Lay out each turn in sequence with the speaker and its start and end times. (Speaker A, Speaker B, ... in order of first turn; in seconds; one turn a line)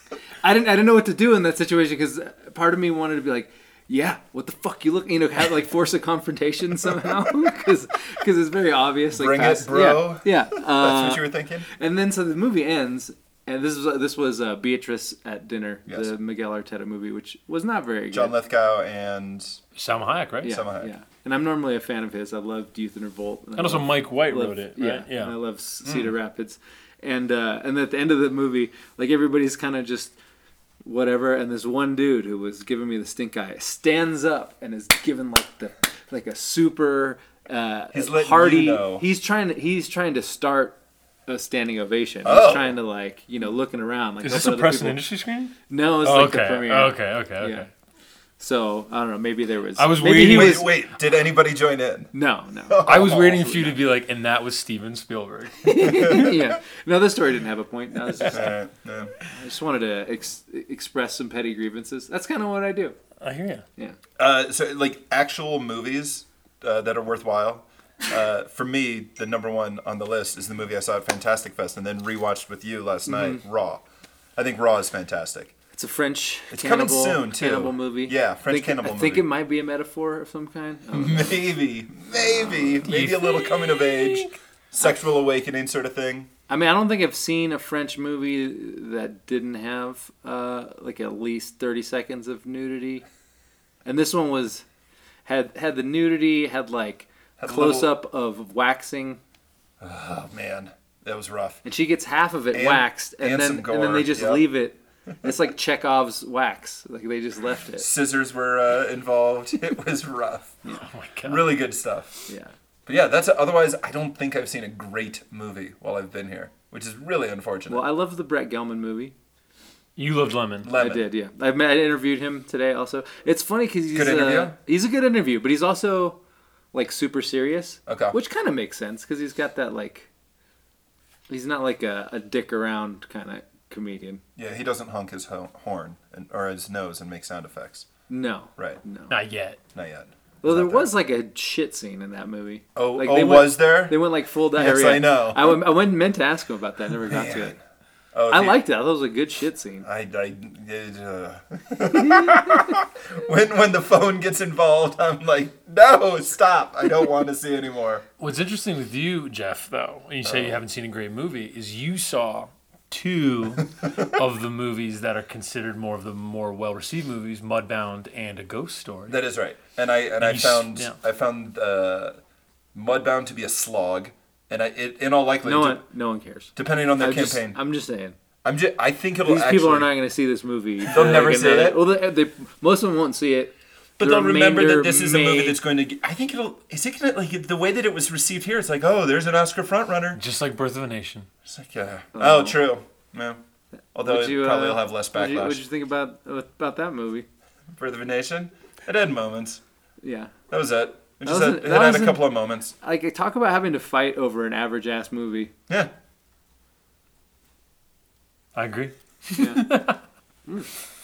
Speaker A: 0.4-18.3
Speaker B: 9.1-11.7
Speaker B: 18.1-19.6
Speaker C: 19.8-20.6
Speaker A: 20.4-30.1
Speaker B: 20.4-20.9
Speaker C: 23.6-25.4
Speaker B: 25.8-26.1
Speaker A: 30.8-45.0
Speaker B: 37.9-39.0
Speaker B: 42.2-42.7
Speaker C: 44.2-47.7
Speaker A: 45.7-47.6
Speaker A: 48.4-50.7
Speaker C: 49.8-50.7
Speaker B: 50.0-52.1
Speaker A: 52.1-53.2
Speaker B: 52.7-53.7
Speaker C: 52.8-56.2
Speaker A: 55.6-58.5
Speaker B: 55.9-56.4
Speaker B: 58.3-59.1
Speaker A: 59.3-63.0
Speaker C: 63.2-63.6
Speaker B: 64.2-73.8
Speaker A: 73.0-73.4
Speaker B: 74.3-75.5
Speaker A: 75.7-81.4
Speaker B: 76.5-79.3
Speaker B: 80.9-86.3
Speaker C: 82.8-84.3
Speaker A: 86.5-93.0
Speaker A: 93.8-94.6
Speaker A: 95.2-99.2
Speaker B: 97.4-97.9
Speaker B: 99.8-101.6
Speaker A: 101.6-107.9
Speaker B: 102.5-104.5
Speaker B: 107.8-110.6
Speaker C: 110.8-111.5
Speaker B: 111.2-112.3
Speaker B: 112.8-117.8
Speaker A: 117.7-119.1
Speaker C: 120.0-120.7
Speaker B: 120.6-121.0
Speaker A: 120.7-126.2
Speaker B: 123.9-124.5
Speaker A: 126.7-130.1
Speaker B: 127.9-128.2
Speaker A: 131.3-134.2
Speaker B: 134.3-137.9
Speaker A: 138.1-139.1
Speaker C: 139.1-139.6
Speaker B: 139.7-140.9
Speaker A: 140.4-147.5
Speaker B: 142.7-144.0
Speaker B: 144.5-145.6
Speaker B: 147.1-147.6
Speaker B: 148.1-148.6
Speaker A: 148.3-149.8
Speaker B: 149.8-158.0
Speaker C: 158.2-169.2
Speaker B: 160.2-160.6
Speaker B: 169.1-172.2
Speaker C: 170.2-170.9
Speaker B: 172.7-175.8
Speaker A: 175.4-178.2
Speaker B: 176.6-177.6
Speaker B: 178.4-179.9
Speaker A: 179.2-185.6
Speaker B: 180.8-181.8
Speaker C: 181.0-181.3
Speaker B: 184.0-190.2
Speaker C: 190.1-191.3
Speaker B: 191.4-193.4
Speaker A: 192.1-192.6
Speaker B: 193.9-195.6
Speaker A: 194.0-197.2
Speaker B: 197.7-199.6
Speaker A: 200.0-200.3
Speaker B: 200.5-202.7
Speaker A: 201.2-202.3
Speaker A: 202.8-205.5
Speaker C: 208.5-210.0
Speaker A: 209.4-209.6